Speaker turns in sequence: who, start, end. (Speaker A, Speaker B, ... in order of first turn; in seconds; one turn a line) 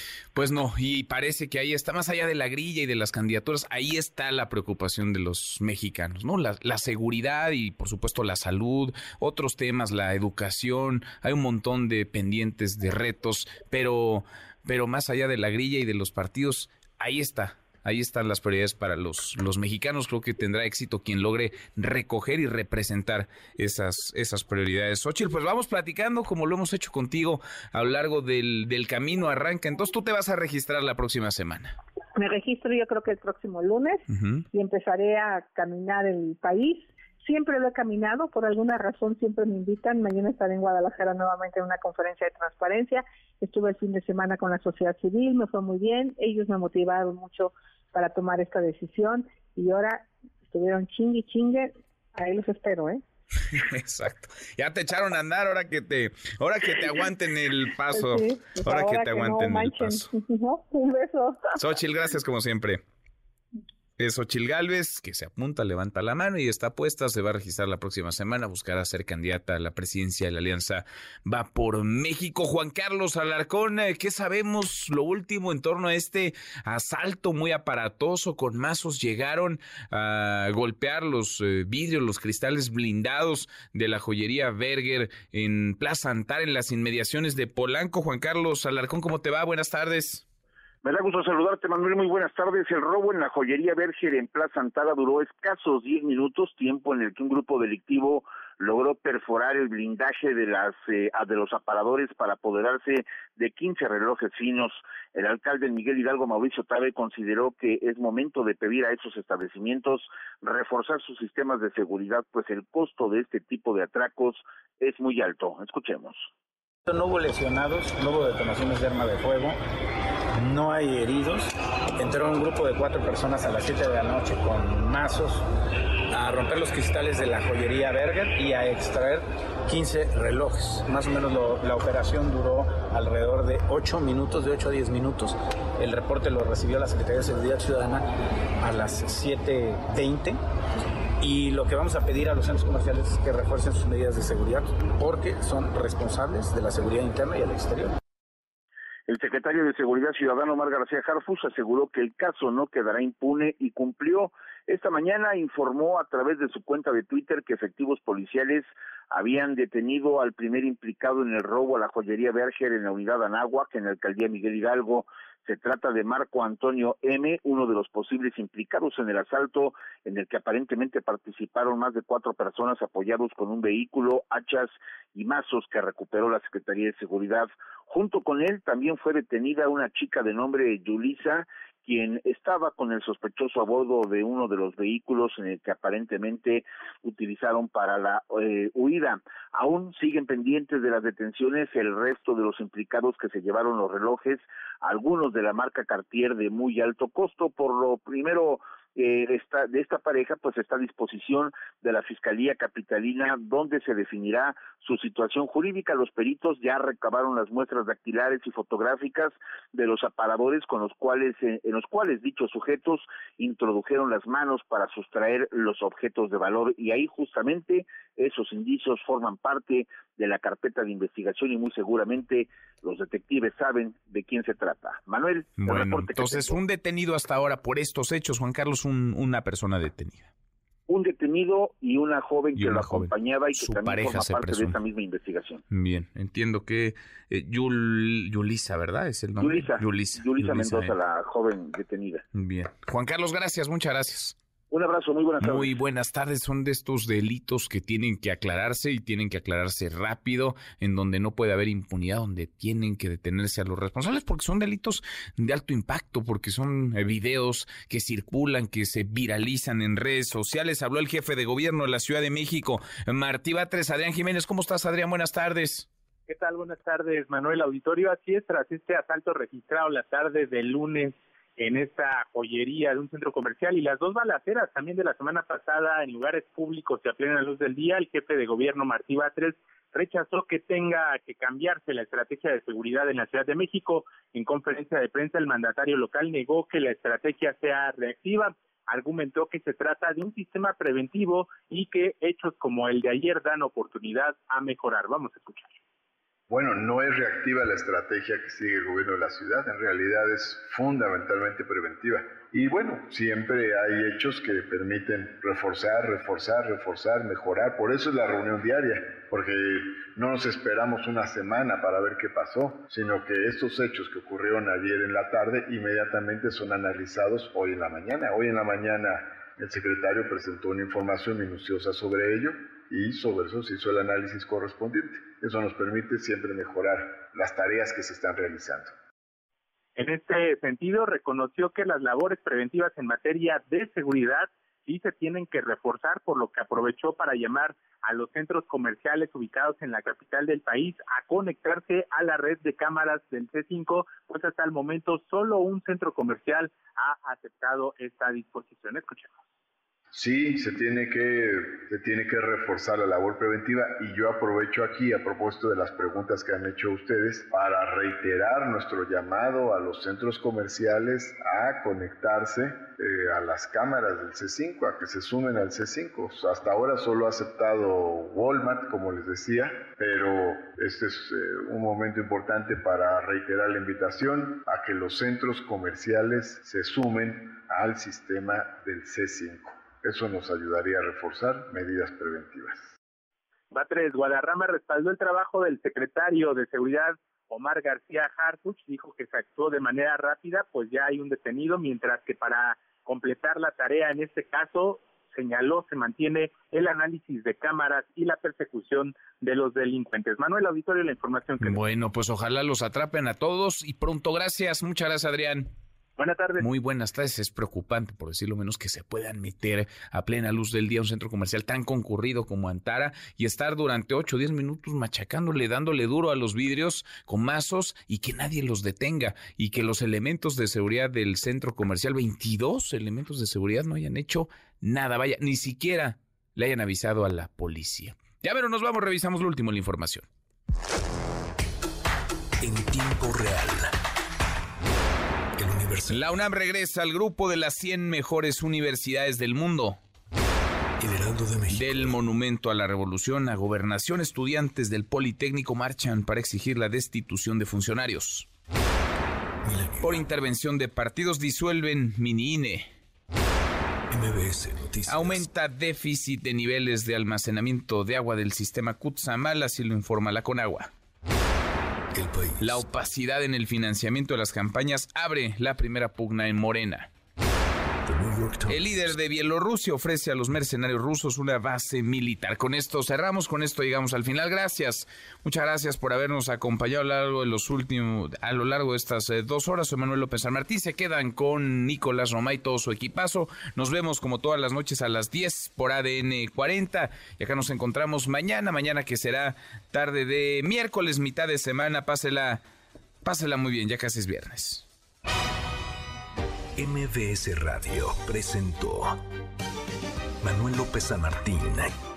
Speaker A: 0.3-31.8
Speaker B: 32.2-53.0
Speaker A: 34.1-34.4
Speaker A: 53.5-60.1
Speaker B: 57.9-61.6
Speaker A: 61.6-62.8
Speaker A: 64.0-90.2
Speaker C: 90.8-116.3
Speaker D: 116.9-119.6
Speaker D: 120.4-125.5
Speaker D: 126.1-138.0
Speaker D: 138.6-140.4
Speaker D: 141.2-147.9
Speaker C: 149.1-226.6
Speaker A: 225.6-230.3
Speaker C: 230.9-235.6
Speaker A: 232.6-234.8
Speaker A: 235.7-240.9
Speaker C: 239.4-242.2
Speaker A: 242.3-244.3
Speaker C: 244.7-245.7
Speaker A: 245.4-265.9
Speaker E: 266.3-295.8
Speaker F: 296.5-328.9
Speaker E: 330.0-349.3
Speaker F: 350.2-382.9
Speaker E: 383.7-401.8
Speaker A: 401.6-405.7
Speaker E: 406.2-406.6
Speaker A: 406.6-430.3
Speaker G: 432.6-433.9
Speaker G: 435.6-436.3
Speaker A: 436.1-440.0
Speaker G: 441.0-442.2
Speaker A: 441.7-448.5
Speaker G: 449.6-450.3
Speaker A: 450.0-452.9
Speaker G: 454.1-455.4
Speaker A: 455.1-460.9
Speaker G: 462.1-462.8
Speaker A: 462.6-467.1
Speaker G: 468.1-469.1
Speaker A: 468.7-492.6
Speaker A: 493.2-494.8
Speaker G: 496.8-499.2
Speaker G: 500.4-501.9